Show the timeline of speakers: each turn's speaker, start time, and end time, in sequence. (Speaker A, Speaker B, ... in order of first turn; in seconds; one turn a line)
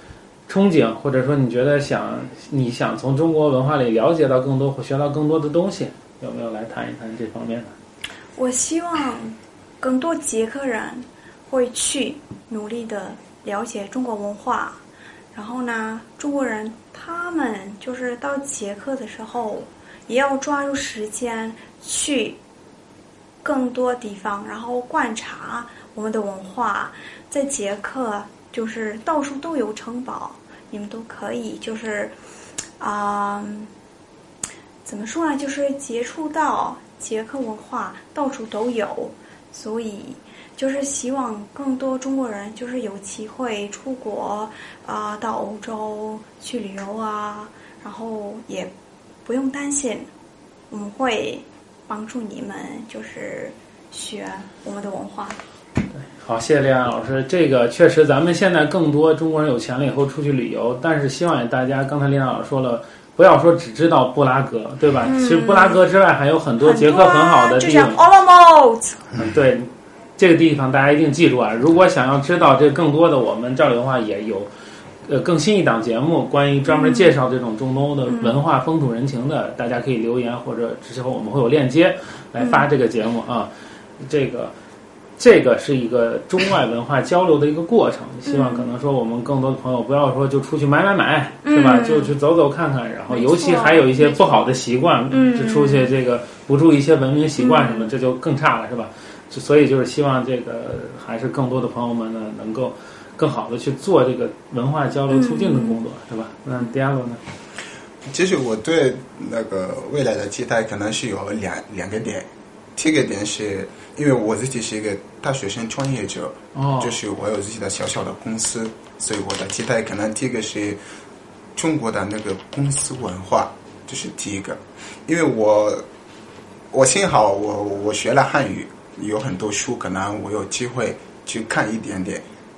Speaker A: 0.5-7.7
Speaker B: 8.3-14.8
Speaker B: 15.3-22.4
Speaker B: 23.4-32.1
Speaker B: 32.8-33.7
Speaker B: 34.8-48.7
Speaker B: 49.2-50.1
Speaker B: 50.7-55.4
Speaker A: 55.9-68.0
Speaker B: 65.0-65.8
Speaker B: 66.6-69.1
Speaker A: 69.2-74.5
Speaker A: 75.0-84.5
Speaker B: 76.7-77.2
Speaker B: 78.1-78.4
Speaker B: 82.4-82.7
Speaker A: 85.2-107.2
Speaker B: 88.2-88.7
Speaker B: 91.4-92.1
Speaker B: 93.1-94.5
Speaker B: 95.1-95.9
Speaker B: 97.4-97.9
Speaker B: 105.1-105.8
Speaker C: 108.1-120.8
Speaker A: 116.5-117.0
Speaker C: 121.5-125.8
Speaker C: 126.7-132.2